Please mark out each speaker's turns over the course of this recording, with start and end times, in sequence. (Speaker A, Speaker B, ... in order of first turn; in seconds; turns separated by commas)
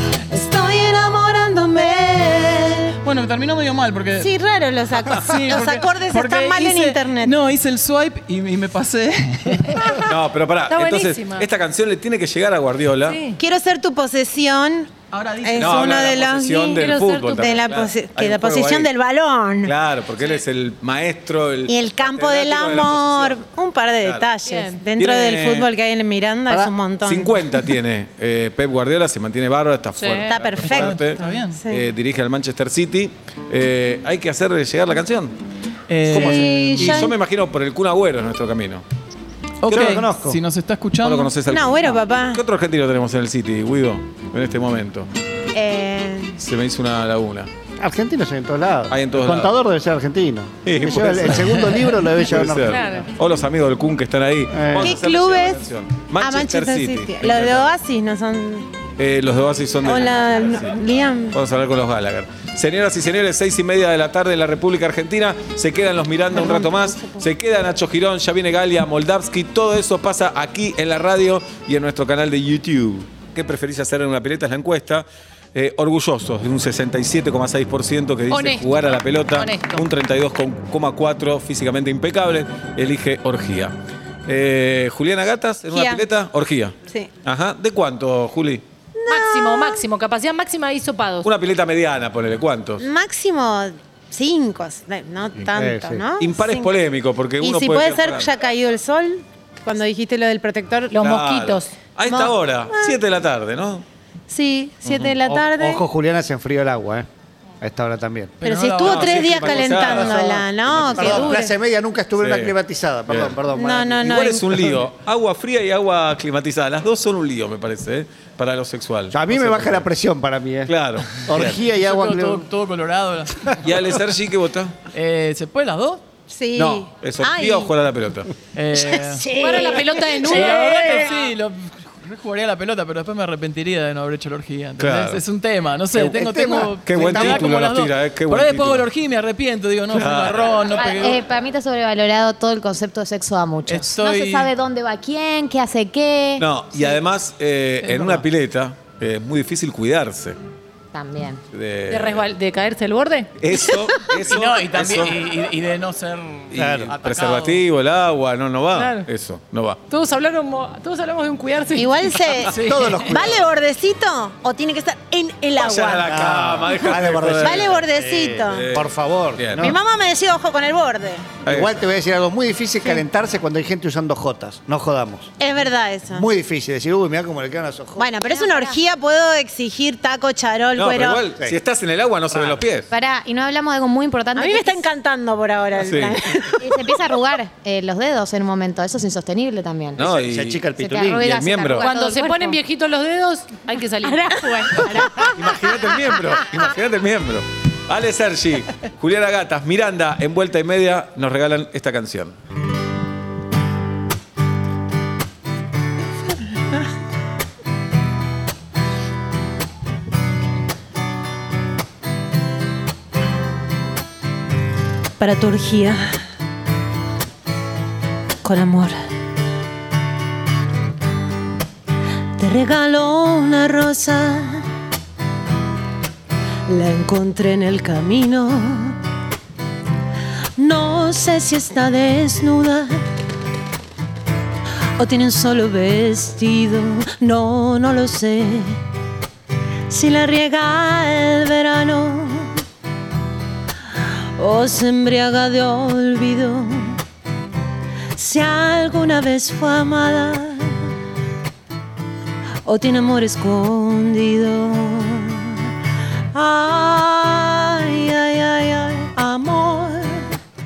Speaker A: 0.3-2.9, Speaker B: 3.0-4.3, Speaker A: 4.2-7.3, Speaker B: 5.1-10.0, Speaker C: 10.0-13.2, Speaker D: 10.7-11.5, Speaker D: 13.0-13.4, Speaker A: 13.3-14.9, Speaker B: 15.1-16.1, Speaker A: 15.4-19.7, Speaker C: 15.6-18.9, Speaker C: 19.6-23.4, Speaker A: 21.7-27.6, Speaker C: 24.0-24.3, Speaker D: 24.4-24.9, Speaker C: 24.9-25.7, Speaker C: 27.0-35.3, Speaker D: 29.9-30.4, Speaker A: 30.3-31.9, Speaker B: 30.6-31.6, Speaker B: 35.9-37.1, Speaker C: 36.1-38.8, Speaker A: 36.1-37.2, Speaker B: 39.6-41.3, Speaker E: 39.7-40.4, Speaker C: 41.0-45.1, Speaker A: 41.5-42.4, Speaker A: 45.5-46.4, Speaker C: 46.4-47.5, Speaker E: 47.8-52.9, Speaker C: 48.9-49.5, Speaker C: 50.6-51.6, Speaker B: 51.4-51.8, Speaker C: 52.2-57.7, Speaker D: 52.6-53.1, Speaker E: 54.5-55.0, Speaker A: 54.8-58.7, Speaker C: 59.0-60.7, Speaker A: 59.8-61.4, Speaker C: 61.3-83.7, Speaker A: 66.3-67.3, Speaker D: 78.3-79.9, Speaker C: 84.2-88.6, Speaker A: 85.7-86.0, Speaker A: 89.0-89.8, Speaker D: 89.1-91.3, Speaker C: 91.2-92.9, Speaker A: 92.8-96.8, Speaker E: 95.4-96.0, Speaker C: 96.2-98.3, Speaker A: 97.4-101.0, Speaker D: 100.9-101.8, Speaker C: 101.0-103.8, Speaker A: 102.0-103.0, Speaker A: 104.3-105.8, Speaker C: 104.8-105.2, Speaker E: 105.3-107.1, Speaker E: 107.6-108.3, Speaker B: 108.4-109.7, Speaker A: 108.4-111.5, Speaker C: 108.8-111.3, Speaker E: 109.4-114.8, Speaker C: 112.2-112.5, Speaker C: 113.1-113.4, Speaker A: 113.5-114.6, Speaker C: 114.0-119.8, Speaker E: 119.1-122.5, Speaker C: 120.7-121.6, Speaker B: 121.8-123.7, Speaker C: 123.6-124.8, Speaker B: 124.9-126.0, Speaker A: 126.3-127.7, Speaker C: 126.5-128.3, Speaker B: 128.5-129.3, Speaker A: 128.7-131.3, Speaker D: 129.3-131.1, Speaker B: 130.2-141.2, Speaker C: 134.8-135.2, Speaker E: 135.9-137.5, Speaker C: 136.8-138.9, Speaker C: 139.9-140.6, Speaker F: 140.7-146.5, Speaker B: 143.7-144.5, Speaker C: 146.4-150.4, Speaker B: 147.8-148.2, Speaker F: 150.9-151.4, Speaker C: 151.5-152.3, Speaker D: 151.9-153.6, Speaker C: 153.4-155.2, Speaker B: 154.2-157.6, Speaker C: 156.5-159.8, Speaker E: 156.6-156.9, Speaker D: 158.7-159.1, Speaker D: 159.9-162.2, Speaker A: 161.7-162.5, Speaker B: 162.4-163.2, Speaker E: 162.6-163.5, Speaker A: 163.1-166.2, Speaker C: 165.6-167.8, Speaker E: 166.0-169.8, Speaker A: 167.4-168.7, Speaker C: 168.5-169.7, Speaker A: 169.6-171.3, Speaker C: 171.4-171.8, Speaker E: 171.5-175.3, Speaker A: 175.4-176.2, Speaker E: 176.1-178.1, Speaker A: 178.0-181.2, Speaker F: 178.2-178.8, Speaker C: 180.7-182.9, Speaker E: 182.3-182.6, Speaker F: 182.9-184.8, Speaker A: 184.3-186.9, Speaker C: 185.8-186.2, Speaker F: 186.6-190.1, Speaker C: 190.0-191.8, Speaker E: 190.0-191.4, Speaker F: 190.7-192.6, Speaker D: 191.8-195.1, Speaker A: 194.0-195.7, Speaker C: 195.3-202.3, Speaker A: 215.2-216.0, Speaker A: 218.4-219.0, Speaker A: 222.4-224.6, Speaker A: 226.7-229.0, Speaker A: 230.6-233.0, Speaker A: 235.0-238.8, Speaker A: 239.9-242.6, Speaker A: 244.4-247.0, Speaker A: 248.2-250.8, Speaker A: 252.6-255.6, Speaker A: 256.3-260.3